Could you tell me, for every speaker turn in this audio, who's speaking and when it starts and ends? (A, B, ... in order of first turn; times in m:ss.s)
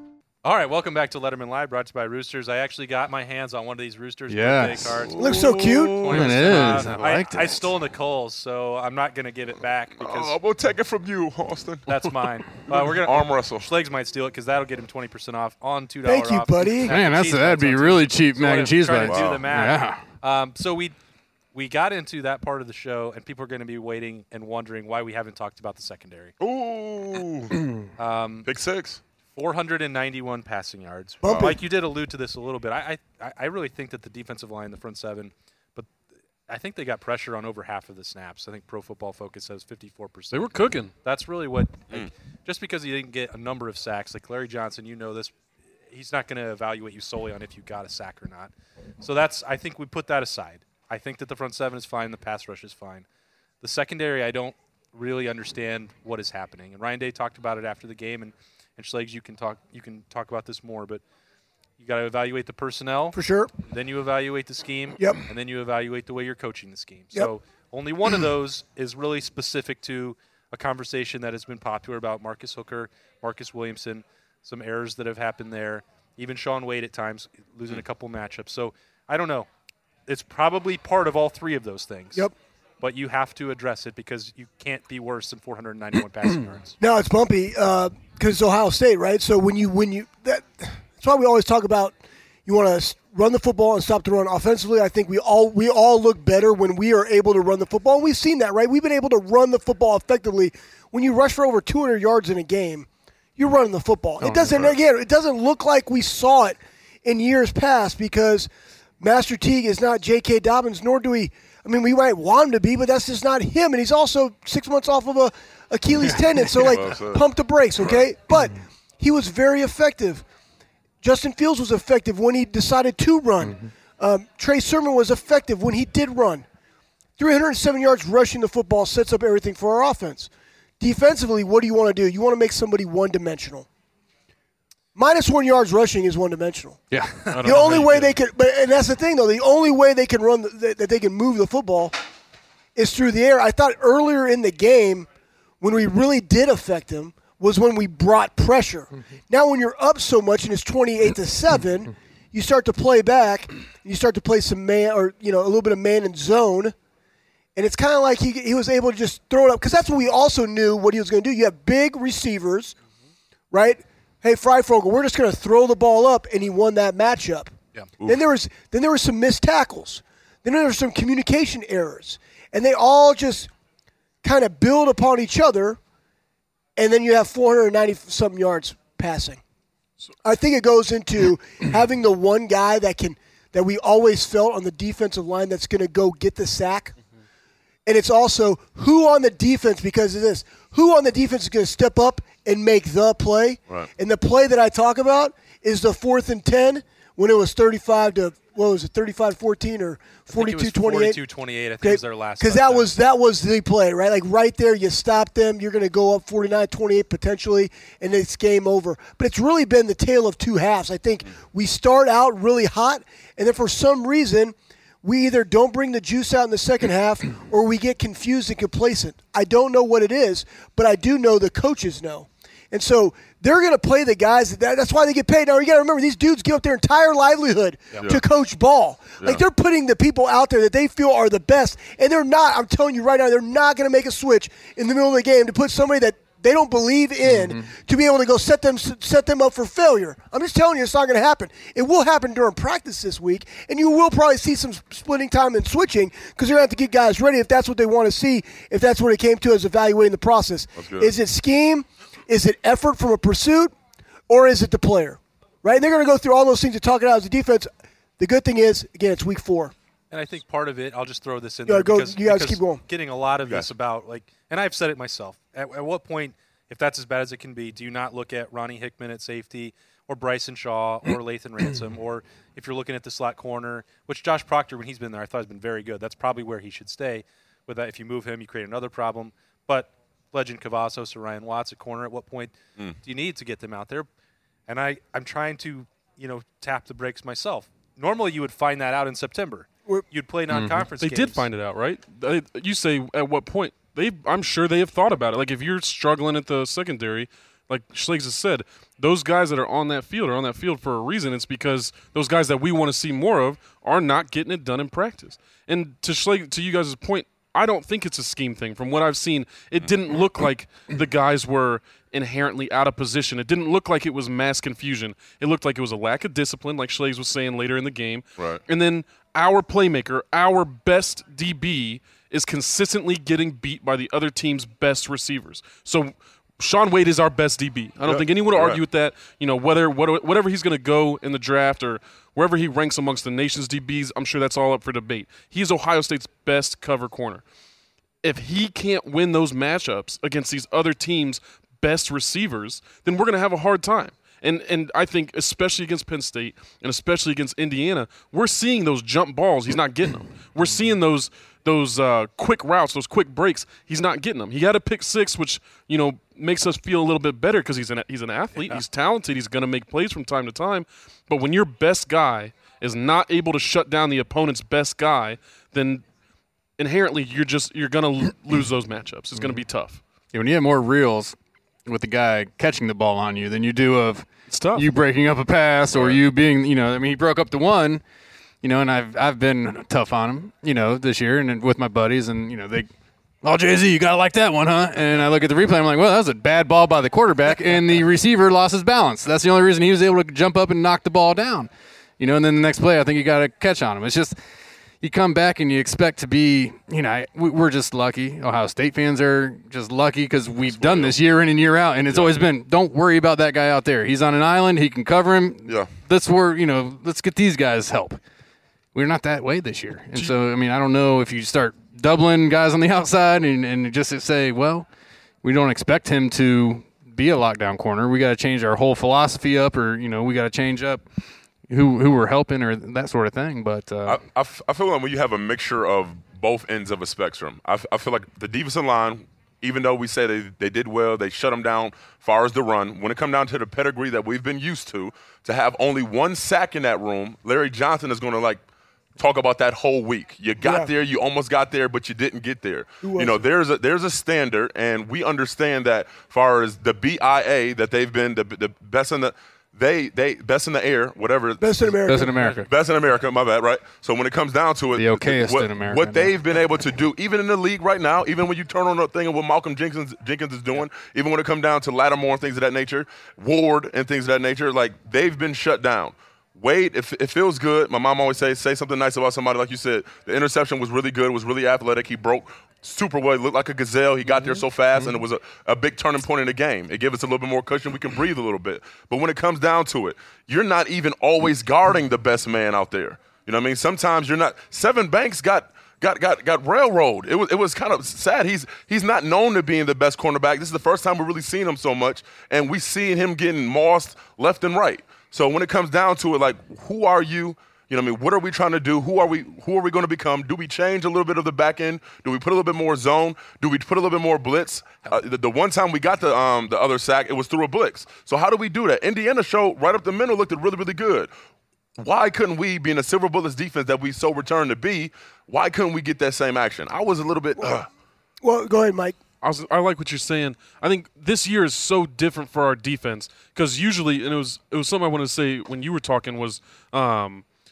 0:00.4-0:10.4 A
0:04.3-0:05.0 B
0:05.1-0:06.8 C
0:05.2-0:06.2 D
0:06.1-0:07.7 B
0:10.0-0:11.9 C
0:11.9-0:21.0 A
0:12.7-0:13.7 C
0:16.1-0:16.9 D
0:16.9-0:20.0 B
0:19.0-0:19.6 C
0:21.5-0:26.3 A
0:26.4-0:27.5 C
0:28.0-0:28.5 A
0:28.5-0:29.0 C
0:29.3-0:35.9 A
0:31.2-0:31.6 D
0:31.3-0:31.5 C
0:36.5-0:45.4 A
0:40.3-0:40.9 E
0:45.9-0:53.1 A
0:53.6-1:01.0 A
1:01.8-1:19.5 A
1:03.1-1:03.5 D
1:20.1-1:22.3 A
1:22.8-1:26.8 A
1:26.8-1:31.9 D
1:32.5-1:48.5 D
1:44.4-1:44.8 C
1:49.0-2:00.2 D
1:56.6-1:58.1 C
2:01.0-2:06.4 D
2:07.2-2:13.7 D
2:15.0-2:16.8 D
2:16.9-2:17.3 B
2:17.3-2:18.2 E
2:17.4-2:17.8 A
2:17.4-2:21.9 D
2:22.8-2:25.1 D
2:25.6-2:36.7 D
2:37.6-2:42.8 D
2:43.5-2:53.5 D
2:54.2-2:55.8 D
2:56.8-2:59.4 D
3:00.2-3:07.0 D
3:07.9-3:21.2 D
3:20.3-3:22.9 A
3:21.8-4:13.7 D
3:57.2-3:57.7 B
4:10.8-4:11.1 C
4:14.3-4:19.7 D
4:20.1-4:44.1 A
4:21.7-4:22.8 D
4:44.7-4:51.4 A
4:50.5-4:50.8 B
4:51.0-5:37.4 E
5:28.0-5:28.8 C
5:38.2-6:06.0 E
5:58.6-5:58.8 A
6:06.8-6:10.0 E
6:09.4-6:09.6 B
6:10.3-6:18.0 B
6:14.5-6:14.9 E
6:15.9-6:16.2 C
6:18.6-6:22.9 B
6:23.4-6:34.4 B
6:35.0-6:48.2 B
6:40.7-6:41.2 C
6:42.1-6:42.4 C
6:45.7-6:45.9 C
6:49.0-6:54.9 B
6:55.4-7:04.2 B
7:04.1-7:18.6 C
7:19.2-7:31.8 C
7:20.6-7:20.9 D
7:23.0-7:23.4 D
7:31.6-7:32.4 D
7:32.1-7:32.7 B
7:32.6-8:31.3 C
7:34.9-7:36.4 B
8:32.0-8:37.9 C
8:38.4-8:39.2 D
8:39.4-8:47.4 E